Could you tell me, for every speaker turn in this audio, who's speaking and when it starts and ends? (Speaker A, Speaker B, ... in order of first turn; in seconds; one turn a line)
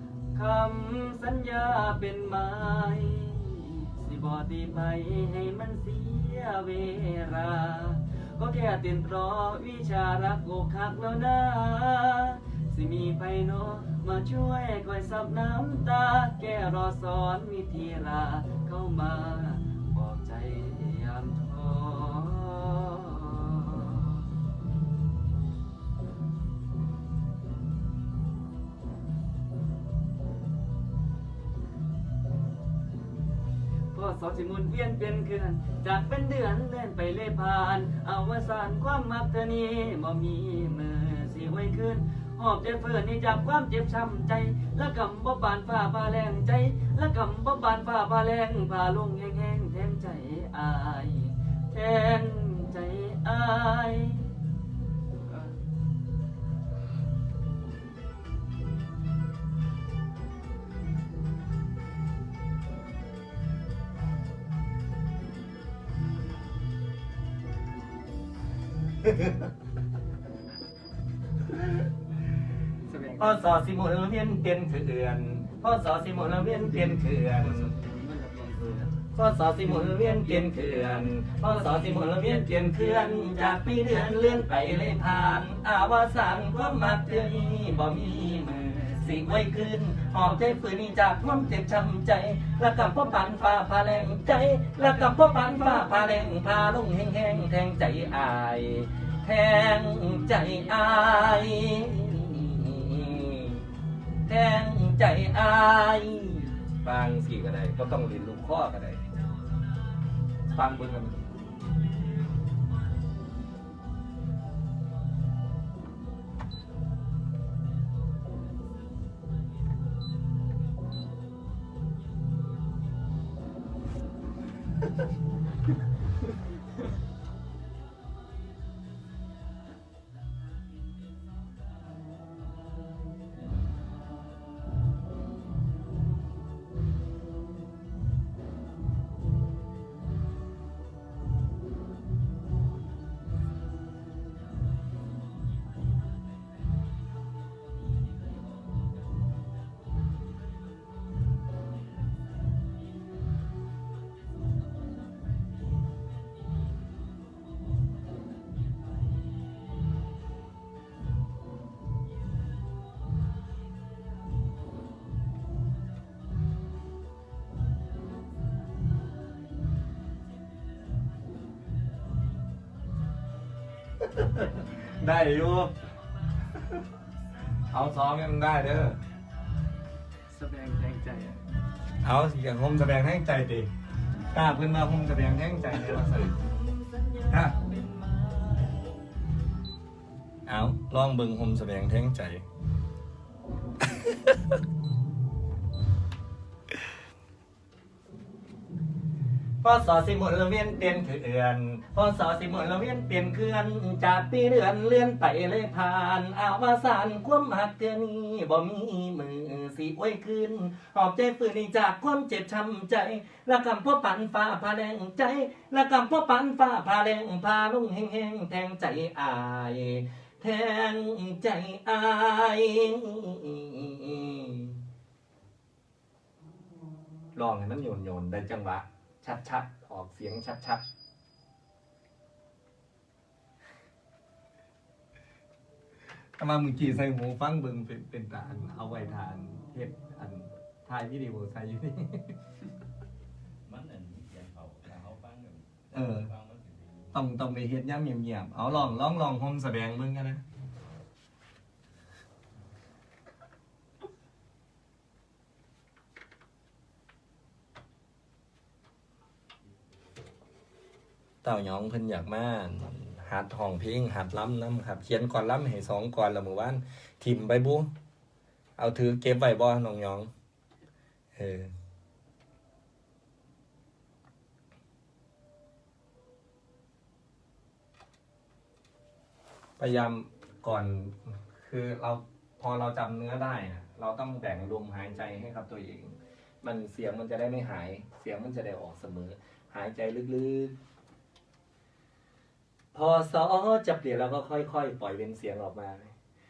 Speaker A: 0.3-24.2
Speaker A: 33.9-54.4
Speaker A: 55.3-55.5
Speaker A: 72.8-73.5
Speaker B: 73.2-77.7
Speaker A: 76.5-79.0
Speaker B: 79.2-103.6
Speaker A: 79.8-84.5
Speaker A: 86.8-89.5
Speaker B: 104.3-109.0
Speaker B: 110.5-111.3
Speaker B: 174.0-175.7
Speaker B: 177.7-179.0
Speaker A: 180.3-181.4
Speaker B: 182.0-183.7
Speaker B: 184.3-186.4
Speaker A: 186.4-188.9
Speaker B: 187.3-187.6
Speaker B: 190.5-192.4
Speaker B: 194.0-194.4
Speaker B: 199.6-224.8
Speaker B: 227.4-230.8
Speaker B: 236.4-242.4
Speaker C: 243.7-247.2
Speaker B: 245.9-246.3
Speaker B: 247.1-250.4
Speaker B: 261.4-267.9
Speaker B: 268.8-270.3
Speaker B: 271.4-271.7
Speaker B: 279.8-290.8
Speaker B: 292.9-296.1